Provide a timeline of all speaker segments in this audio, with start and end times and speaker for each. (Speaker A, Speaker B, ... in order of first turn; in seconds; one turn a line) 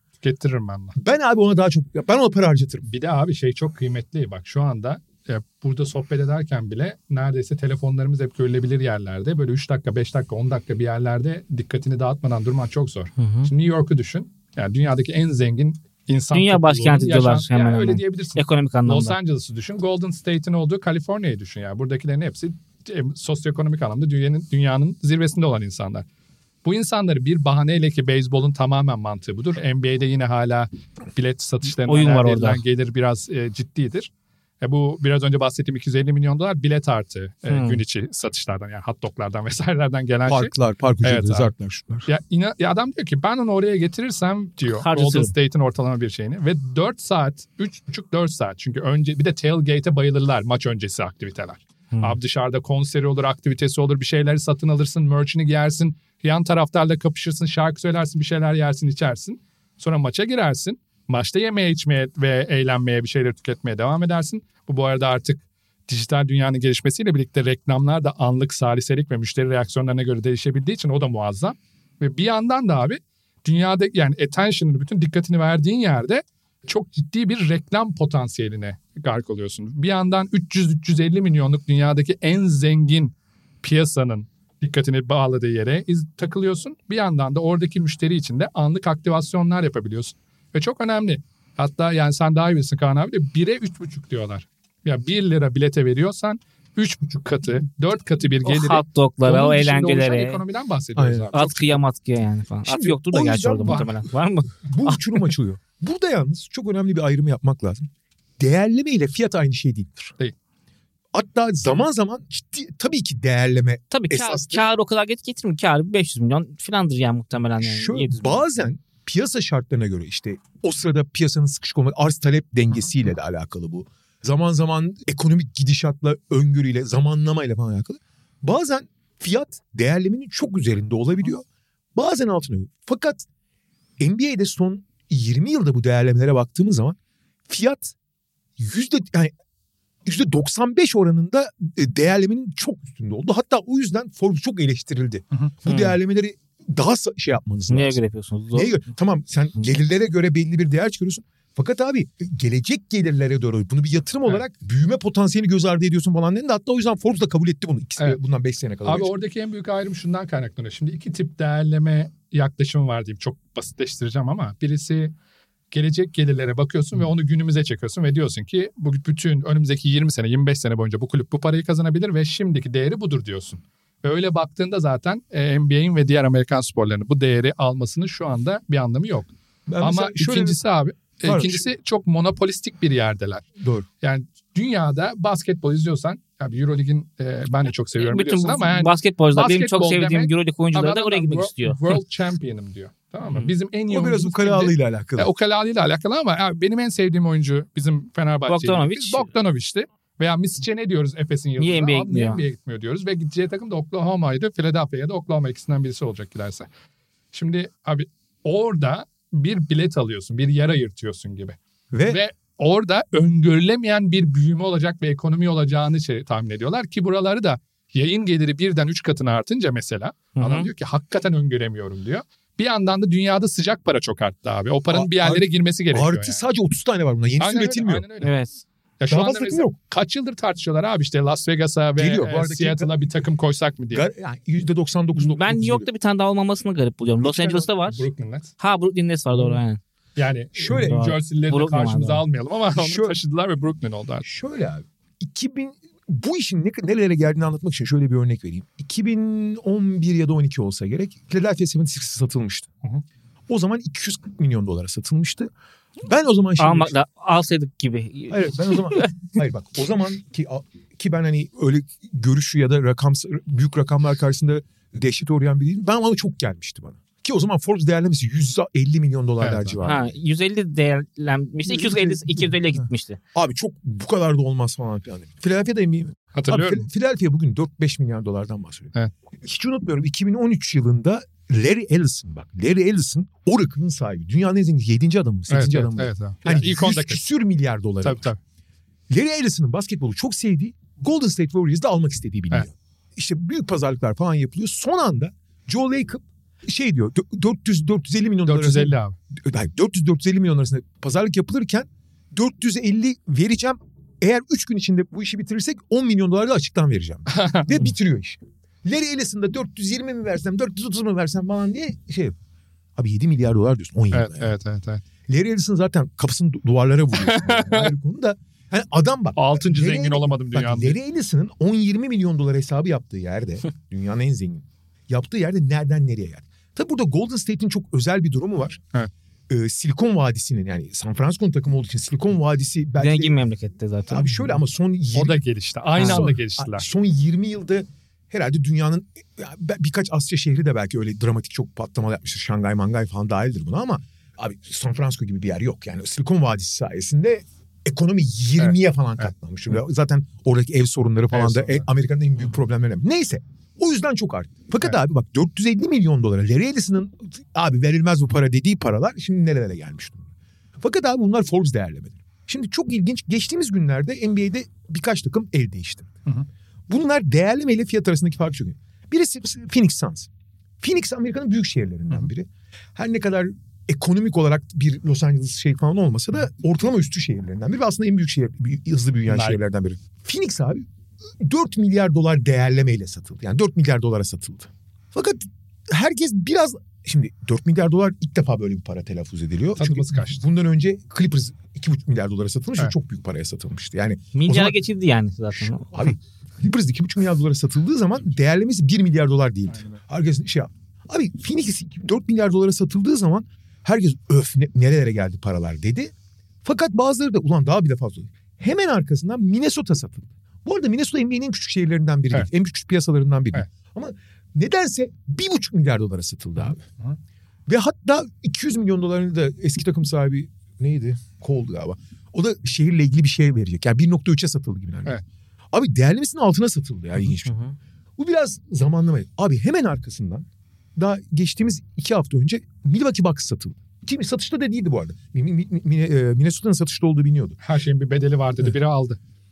Speaker A: 0.2-0.9
Speaker B: 1.0-2.9
Speaker A: 2.9-26.1
Speaker C: 13.2-13.5
Speaker C: 16.3-19.1
Speaker A: 26.6-34.1
Speaker C: 31.8-32.6
Speaker A: 34.6-40.5
Speaker C: 37.5-37.8
Speaker B: 40.2-42.1
Speaker A: 41.0-41.5
Speaker A: 42.1-101.8
Speaker C: 44.8-45.3
Speaker C: 98.4-100.4
Speaker B: 101.0-101.3
Speaker C: 101.3-105.0
Speaker B: 102.6-103.9
Speaker B: 104.6-110.1
Speaker B: 111.1-114.6
Speaker C: 113.9-118.4
Speaker B: 117.6-131.4
Speaker B: 131.9-133.2
Speaker B: 134.0-136.9
Speaker B: 137.5-137.9
Speaker B: 138.6-139.3
Speaker B: 140.0-148.0
Speaker C: 145.7-145.9
Speaker C: 147.7-148.8
Speaker B: 148.5-159.1
Speaker A: 158.8-165.1
Speaker A: 165.7-179.3
Speaker B: 179.7-180.6
Speaker A: 179.8-183.4
Speaker B: 181.2-181.6
Speaker B: 183.6-183.9
Speaker A: 184.0-206.7
Speaker C: 188.0-191.8
Speaker B: 193.9-195.3
Speaker C: 198.5-199.2
Speaker C: 201.6-202.4
Speaker A: 207.3-226.4
Speaker B: 211.9-212.2
Speaker C: 220.4-220.7
Speaker B: 224.9-228.0
Speaker A: 227.4-228.3
Speaker C: 228.2-228.6
Speaker A: 229.0-234.0
Speaker B: 229.1-229.7
Speaker B: 232.0-233.1
Speaker B: 233.9-235.9
Speaker C: 235.2-238.0
Speaker B: 237.2-237.7
Speaker A: 237.8-238.5
Speaker C: 238.6-239.8
Speaker A: 240.2-244.2
Speaker B: 240.6-241.0
Speaker C: 240.7-242.2
Speaker B: 242.7-243.1
Speaker B: 244.2-252.7
Speaker B: 253.5-255.5
Speaker B: 256.0-256.9
Speaker C: 256.6-259.2
Speaker B: 258.3-270.1
Speaker A: 269.4-269.8
Speaker C: 269.8-273.2
Speaker B: 271.7-288.3
Speaker A: 276.3-276.9
Speaker A: 285.5-287.2
Speaker A: 288.0-288.4
Speaker B: 289.1-312.3
Speaker A: 298.4-299.1
Speaker A: 307.3-307.8
Speaker B: 312.9-314.5
Speaker A: 314.1-315.0
Speaker B: 315.3-328.8
Speaker A: 317.2-317.9
Speaker A: 319.4-321.0
Speaker B: 329.5-333.4
Speaker C: 333.0-334.6
Speaker B: 334.1-335.4
Speaker A: 335.1-336.9
Speaker C: 336.0-336.3
Speaker B: 336.0-360.2
Speaker A: 348.6-349.2
Speaker A: 351.3-351.9
Speaker B: 360.8-366.2
Speaker B: 366.9-370.3
Speaker B: 370.8-380.9
Speaker A: 379.3-379.6
Speaker B: 381.4-394.7
Speaker A: 389.8-390.4
Speaker C: 394.3-396.0
Speaker B: 395.7-406.1
Speaker A: 399.7-400.0
Speaker B: 406.6-416.8
Speaker B: 417.7-425.2
Speaker B: 425.7-437.6
Speaker A: 437.6-439.2